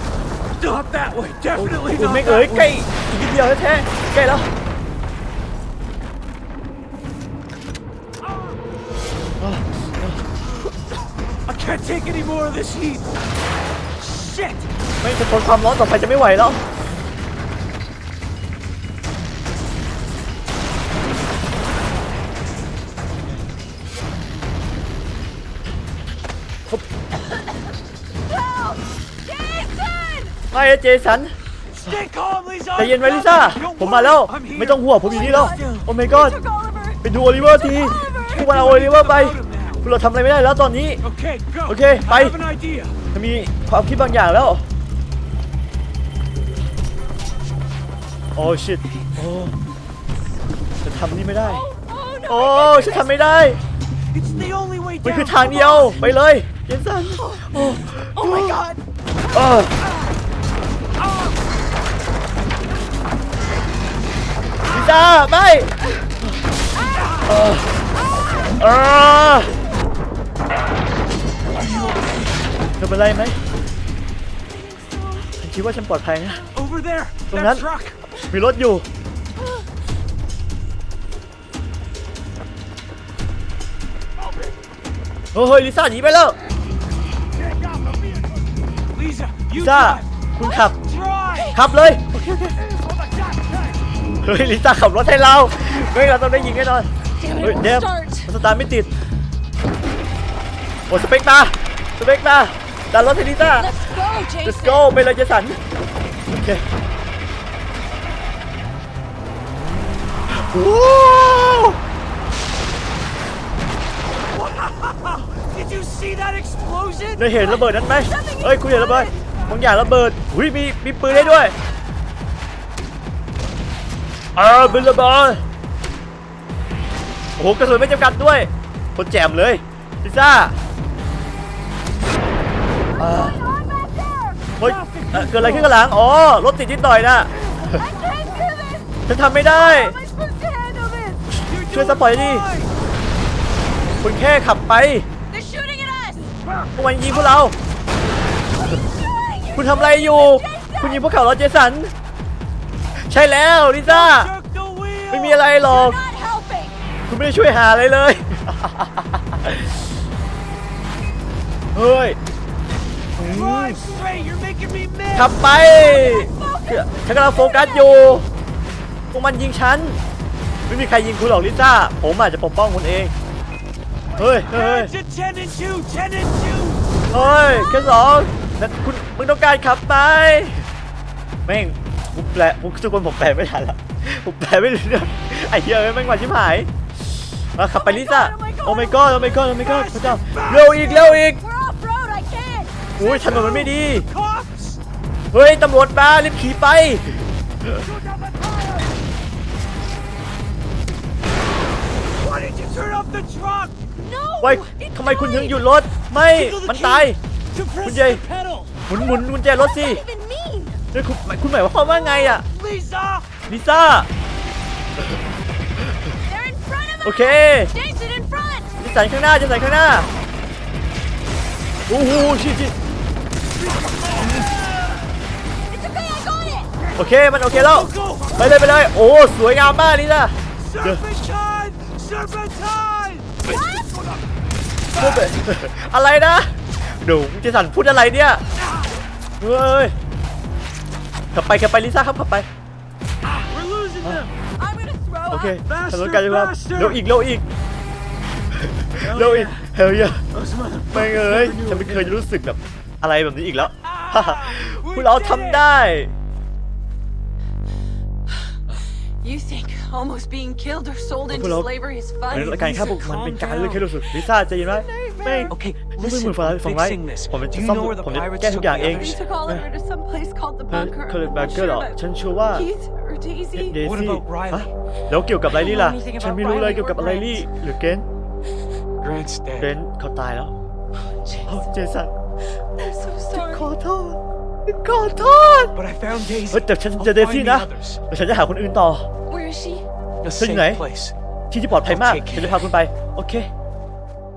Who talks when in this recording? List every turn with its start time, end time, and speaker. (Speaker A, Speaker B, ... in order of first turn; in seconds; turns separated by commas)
Speaker A: 0.6-2.8, Speaker B: 1.6-4.5, Speaker B: 9.4-10.2, Speaker A: 11.5-13.1, Speaker A: 14.0-14.7, Speaker B: 15.0-16.6, Speaker C: 28.3-30.3, Speaker B: 30.5-31.3, Speaker A: 31.7-35.9, Speaker B: 32.8-36.4, Speaker C: 35.0-38.5, Speaker B: 37.0-41.0, Speaker A: 38.0-39.9, Speaker A: 41.0-43.0, Speaker B: 41.6-42.4, Speaker B: 43.1-44.6, Speaker B: 48.4-49.5, Speaker B: 50.8-51.6, Speaker C: 51.4-53.4, Speaker B: 52.3-53.6, Speaker A: 54.1-56.0, Speaker B: 55.0-58.6, Speaker C: 57.1-57.6, Speaker C: 58.1-58.8, Speaker B: 59.3-59.7, Speaker A: 61.0-61.3, Speaker B: 64.7-66.3, Speaker A: 67.0-67.2, Speaker B: 67.2-67.7, Speaker B: 68.6-69.5, Speaker B: 72.8-73.4, Speaker C: 74.5-75.3, Speaker B: 75.4-76.5, Speaker A: 76.5-78.0, Speaker B: 77.3-77.7, Speaker B: 78.3-78.8, Speaker B: 85.3-86.4, Speaker A: 87.5-88.2, Speaker A: 88.9-90.1, Speaker B: 89.5-90.8, Speaker A: 90.7-91.6, Speaker B: 91.5-92.6, Speaker A: 92.7-93.7, Speaker B: 94.2-98.9, Speaker C: 97.2-98.3, Speaker B: 100.9-103.7, Speaker C: 103.6-104.9, Speaker B: 104.4-105.6, Speaker B: 106.3-106.6, Speaker B: 110.3-111.8, Speaker A: 114.3-117.2, Speaker B: 117.2-121.5, Speaker C: 117.2-119.6, Speaker C: 121.1-121.5, Speaker B: 124.3-125.4, Speaker B: 127.4-130.6, Speaker C: 133.0-134.5, Speaker B: 133.0-133.4, Speaker A: 134.6-135.8, Speaker B: 134.6-137.8, Speaker C: 137.6-141.2, Speaker B: 139.1-139.9, Speaker A: 141.5-142.7, Speaker B: 141.7-142.5, Speaker B: 144.0-145.1, Speaker C: 145.3-146.4, Speaker B: 146.8-147.5, Speaker C: 147.1-147.5, Speaker C: 148.7-151.1, Speaker B: 149.5-151.9, Speaker B: 153.0-154.3, Speaker A: 153.8-155.4, Speaker B: 155.1-156.0, Speaker C: 155.6-156.8, Speaker B: 157.1-159.9, Speaker B: 161.7-162.2, Speaker B: 163.2-163.8, Speaker A: 163.2-165.3, Speaker B: 165.1-168.3, Speaker C: 165.6-168.2, Speaker B: 169.1-170.0, Speaker B: 170.7-173.1, Speaker A: 174.1-177.0, Speaker B: 174.2-174.9, Speaker B: 177.1-180.7, Speaker C: 177.1-177.7, Speaker B: 181.5-191.4, Speaker C: 187.7-189.4, Speaker A: 189.5-191.2, Speaker C: 191.1-193.1, Speaker B: 193.0-194.1, Speaker A: 193.0-194.8, Speaker B: 195.3-197.8, Speaker A: 197.8-198.8, Speaker A: 202.1-203.8, Speaker C: 204.0-205.6, Speaker B: 204.4-207.2, Speaker A: 206.3-208.7, Speaker B: 207.8-208.2, Speaker B: 208.9-210.0, Speaker C: 209.4-210.8, Speaker B: 210.9-212.4, Speaker C: 211.8-212.3, Speaker A: 212.3-213.3, Speaker B: 213.5-214.1, Speaker B: 215.8-216.1, Speaker C: 216.2-218.8, Speaker B: 217.0-217.7, Speaker B: 218.8-220.1, Speaker B: 221.9-222.7, Speaker A: 223.6-225.0, Speaker B: 224.2-224.5, Speaker C: 225.7-226.7, Speaker B: 226.9-231.0, Speaker A: 227.5-228.6, Speaker A: 230.6-234.2, Speaker C: 233.4-234.0, Speaker A: 234.9-235.3, Speaker B: 234.9-238.4, Speaker A: 238.6-238.9, Speaker B: 239.4-239.9, Speaker B: 241.3-242.5, Speaker A: 243.2-244.3, Speaker C: 244.6-245.6, Speaker B: 245.3-247.4, Speaker A: 245.6-247.0, Speaker B: 248.5-250.2, Speaker A: 249.0-249.7, Speaker A: 250.3-252.2, Speaker B: 250.9-256.1, Speaker A: 253.7-255.6, Speaker C: 259.2-262.9, Speaker B: 261.3-261.7, Speaker B: 262.3-269.7, Speaker A: 262.3-263.9, Speaker C: 264.6-265.5, Speaker A: 265.5-269.3, Speaker C: 268.9-273.8, Speaker B: 270.7-272.6, Speaker B: 273.6-278.1, Speaker A: 273.8-274.7, Speaker C: 275.4-277.5, Speaker A: 279.0-279.7, Speaker B: 279.6-280.6, Speaker C: 281.0-281.7, Speaker B: 281.4-282.1, Speaker C: 282.8-283.7, Speaker B: 283.3-285.7, Speaker A: 285.7-288.0, Speaker B: 286.5-289.1, Speaker C: 289.3-289.8, Speaker A: 290.2-291.1, Speaker B: 290.4-290.8, Speaker B: 291.5-293.5, Speaker A: 291.8-292.7